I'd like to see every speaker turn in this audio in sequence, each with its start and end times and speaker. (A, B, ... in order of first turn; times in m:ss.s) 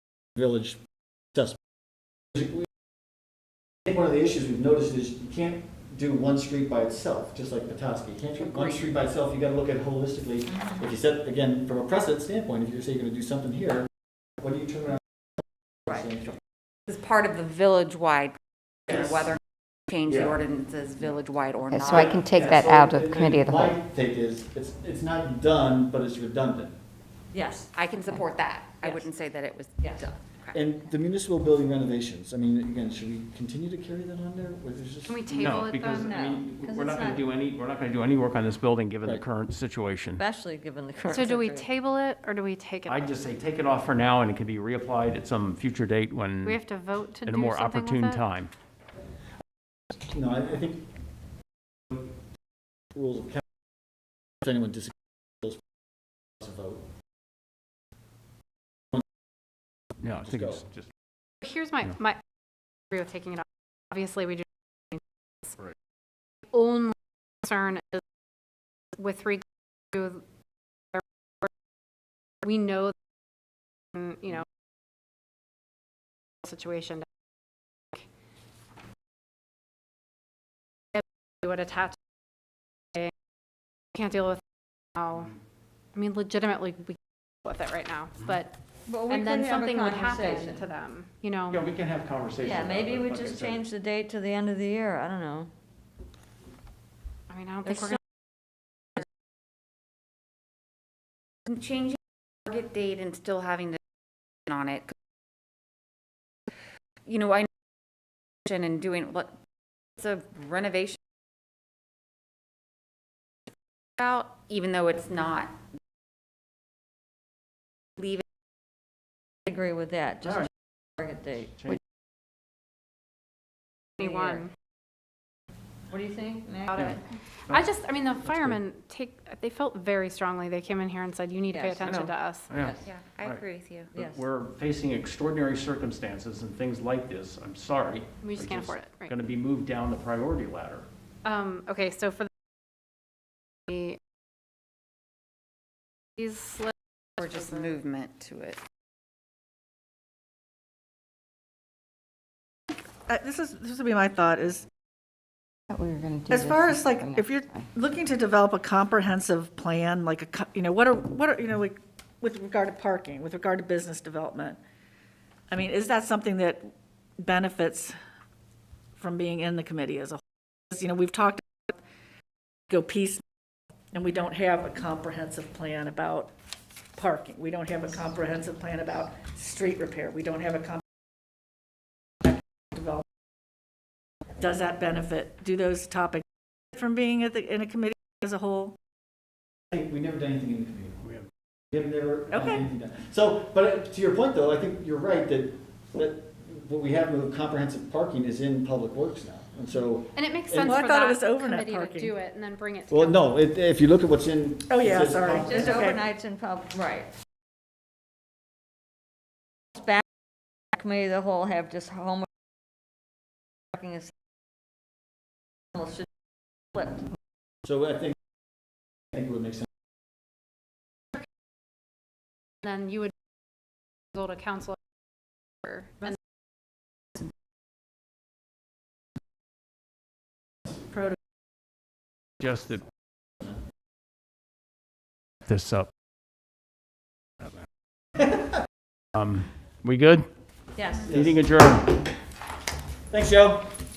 0:00.4-0:00.8 A
0:02.3-0:02.7 A
0:03.9-0:13.9 A
0:14.4-0:15.0 A
0:15.9-0:16.3 A
0:16.9-0:18.4 B
0:18.9-0:19.3 A
0:18.9-0:22.2 B
0:21.7-0:23.7 C
0:21.8-0:26.8 A
0:27.3-0:27.7 D
0:27.7-0:30.6 B
0:30.5-0:35.6 A
0:35.0-0:36.2 E
0:35.3-0:40.2 F
0:35.9-0:37.3 D
0:36.1-0:36.4 A
0:40.2-0:41.7 D
0:41.0-0:43.1 E
0:42.9-0:46.6 F
0:46.4-0:48.2 E
0:47.2-0:48.5 F
0:50.0-0:50.8 A
0:52.9-0:53.4 A
0:54.4-0:55.6 A
0:56.4-0:56.8 A
1:00.0-1:00.9 F
1:00.2-1:00.6 A
1:01.4-1:02.2 E
1:02.9-1:05.0 E
1:06.5-1:08.0 E
1:09.0-1:10.2 E
1:12.4-1:12.9 E
1:13.9-1:14.4 E
1:16.4-1:17.0 E
1:20.9-1:22.0 E
1:23.9-1:24.4 E
1:25.0-1:25.3 E
1:25.9-1:28.5 E
1:28.9-1:30.6 D
1:29.1-1:31.6 E
1:31.5-1:33.6 F
1:32.4-1:35.5 D
1:37.3-1:38.0 E
1:37.6-1:38.0 D
1:41.5-1:43.8 B
1:44.4-1:44.9 B
1:47.0-1:47.5 B
1:48.4-1:49.3 B
1:50.0-1:51.0 B
1:54.0-1:55.6 B
1:58.0-1:58.2 B
1:59.5-2:01.6 D
2:04.0-2:04.4 D
2:04.0-2:04.4 E
2:05.9-2:06.9 D
2:06.7-2:12.5 E
2:08.2-2:08.6 F
2:11.5-2:11.9 D
2:11.8-2:13.4 F
2:12.8-2:13.9 B
2:13.9-2:14.2 D
2:14.0-2:20.8 F
2:18.2-2:19.1 E
2:21.2-2:22.3 E
2:23.7-2:24.0 E
2:26.2-2:27.6 E
2:27.2-2:28.6 B
2:33.1-2:34.6 G
2:35.7-2:37.3 C
2:36.3-2:44.6 G
2:45.5-2:48.0 G
2:49.0-2:50.2 G
2:50.7-2:51.8 G
2:52.7-2:53.2 G
2:53.9-2:56.3 G
2:57.0-3:00.8 G
3:02.2-3:03.0 G
3:04.4-3:08.7 G
3:09.7-3:11.0 A
3:11.7-3:20.8 A
3:12.3-3:12.6 G
3:20.1-3:23.4 E
3:20.6-3:22.2 G
3:22.9-3:25.8 A
3:24.7-3:26.0 G
3:25.4-3:27.1 D
3:29.8-3:30.0 D
3:30.7-3:32.3 D
3:33.7-3:34.1 D
3:35.7-3:36.1 D
3:36.7-3:37.0 D
3:37.6-3:38.2 A
3:39.1-3:39.7 A
3:42.6-3:43.1 E
3:44.1-3:44.8 E
3:45.7-3:46.2 E
3:52.4-3:52.8 F
3:55.4-3:55.9 F
3:58.2-3:58.5 A
3:59.1-4:00.3 F
4:00.8-4:01.2 D
4:01.0-4:01.4 A
4:01.0-4:02.0 F
4:03.1-4:03.7 A